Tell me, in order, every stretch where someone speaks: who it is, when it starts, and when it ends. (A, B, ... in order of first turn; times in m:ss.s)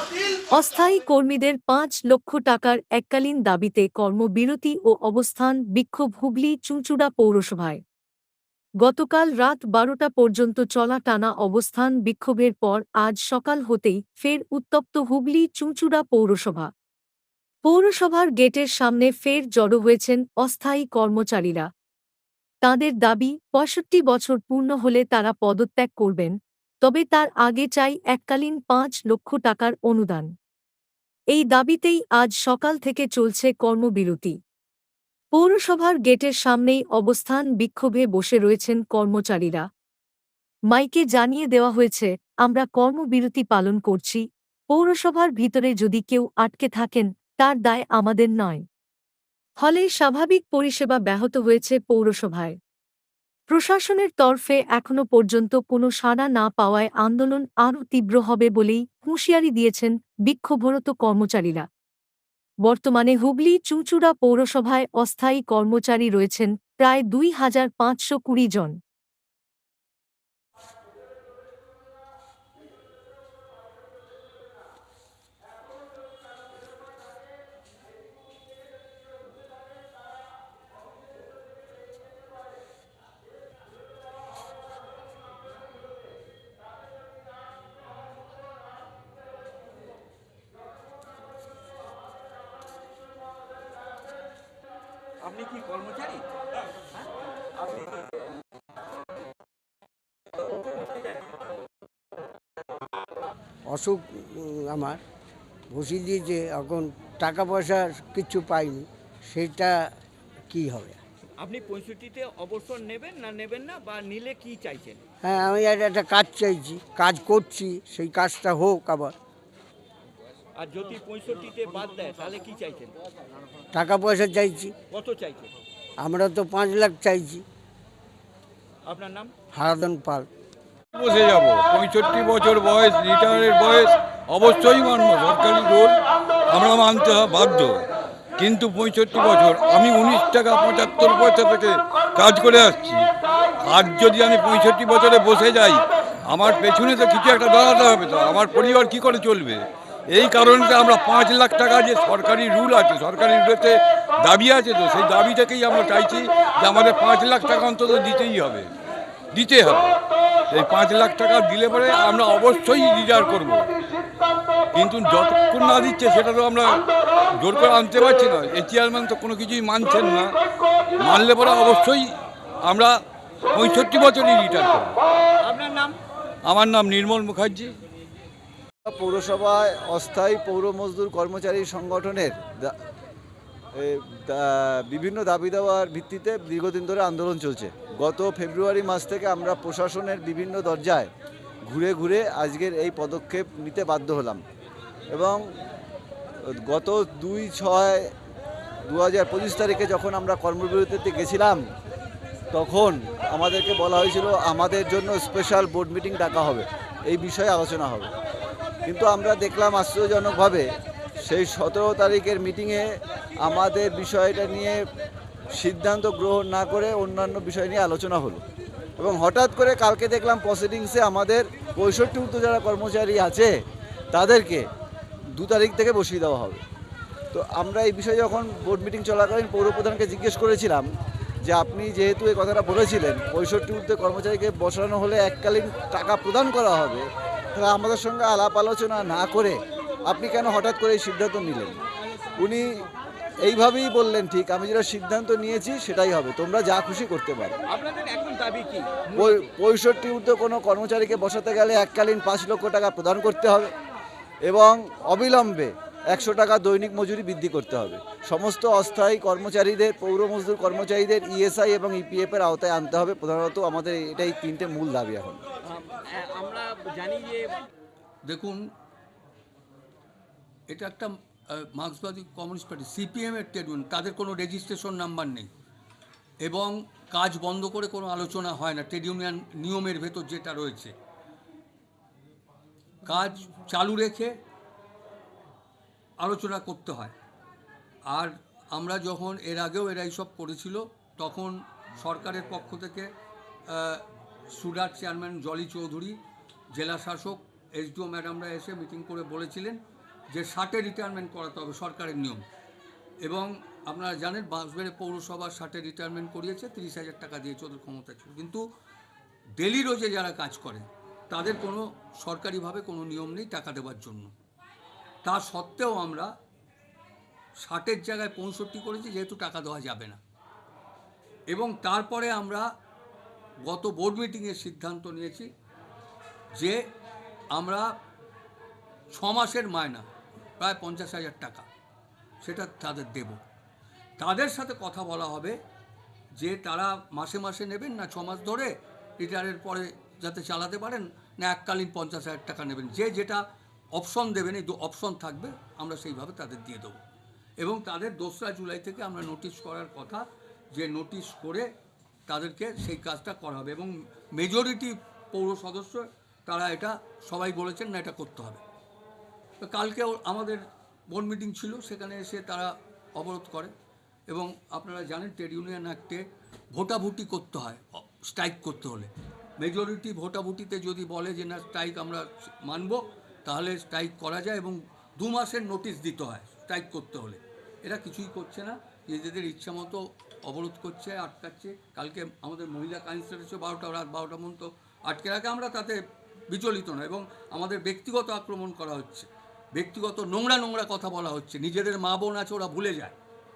0:00.3-0:07.8 A
0:08.8-0:16.7 A
0:17.6-0:21.7 A
0:22.6-0:30.3 A
0:31.3-0:34.4 A
0:35.3-0:39.7 A
0:40.7-0:48.6 A
0:49.6-0:52.6 A
0:53.5-1:01.7 A
1:02.6-1:08.8 A
1:35.2-1:36.2 B
1:37.6-1:38.1 B
1:43.7-1:45.0 C
1:45.7-1:49.9 C
1:50.5-1:51.0 C
1:51.4-1:55.0 B
1:55.2-1:59.2 C
2:00.6-2:02.9 B
2:03.7-2:04.7 C
2:04.9-2:05.5 B
2:06.0-2:07.4 C
2:08.8-2:09.3 B
2:09.5-2:10.3 C
2:10.9-2:17.8 D
2:18.4-2:23.1 D
2:23.6-2:38.7 D
2:39.3-2:40.0 D
2:40.5-2:43.7 D
2:44.7-2:46.8 D
2:47.4-2:50.3 D
2:51.0-2:52.1 D
2:52.6-2:53.0 D
2:53.5-2:55.0 D
2:55.4-2:56.0 B
2:56.4-2:57.8 D
2:58.8-3:02.8 E
3:03.8-3:11.1 E
3:11.7-3:14.4 E
3:15.1-3:15.4 E
3:16.5-3:18.1 E
3:18.9-3:21.6 E
3:22.5-3:28.1 E
3:28.8-3:30.7 E
3:31.3-3:32.9 E
3:33.4-3:34.8 E
3:35.5-3:38.4 E
3:39.0-3:43.5 E
3:44.1-3:44.6 E
3:45.4-3:46.6 E
3:47.3-3:50.8 E
3:51.5-3:57.0 E
3:57.6-4:01.8 E
4:02.4-4:02.7 E
4:03.4-4:07.6 E
4:07.7-4:09.4 B
4:09.2-4:13.7 E
4:14.5-4:25.4 E
4:25.6-4:27.6 B
4:28.3-4:28.6 F
4:30.7-4:35.5 F
4:36.4-4:40.9 F
4:43.0-4:44.3 F
4:46.2-4:47.1 F
4:48.1-4:53.1 F
4:53.7-4:56.2 F
4:56.7-4:59.8 F
5:00.3-5:02.4 F
5:03.2-5:08.6 F
5:09.6-5:14.3 F
5:15.2-5:16.3 F
5:17.6-5:20.2 F
5:21.5-5:22.6 F
5:23.6-5:25.5 F
5:27.5-5:27.9 F
5:29.1-5:30.0 F
5:30.6-5:31.6 F
5:32.4-5:33.4 F
5:34.2-5:35.6 F
5:36.4-5:43.4 F
5:44.0-5:47.0 F
5:47.6-5:50.2 F
5:50.7-5:51.7 F
5:52.3-5:58.6 F
5:59.6-6:03.7 F
6:04.3-6:06.2 F
6:06.7-6:26.0 F
6:26.5-6:33.1 F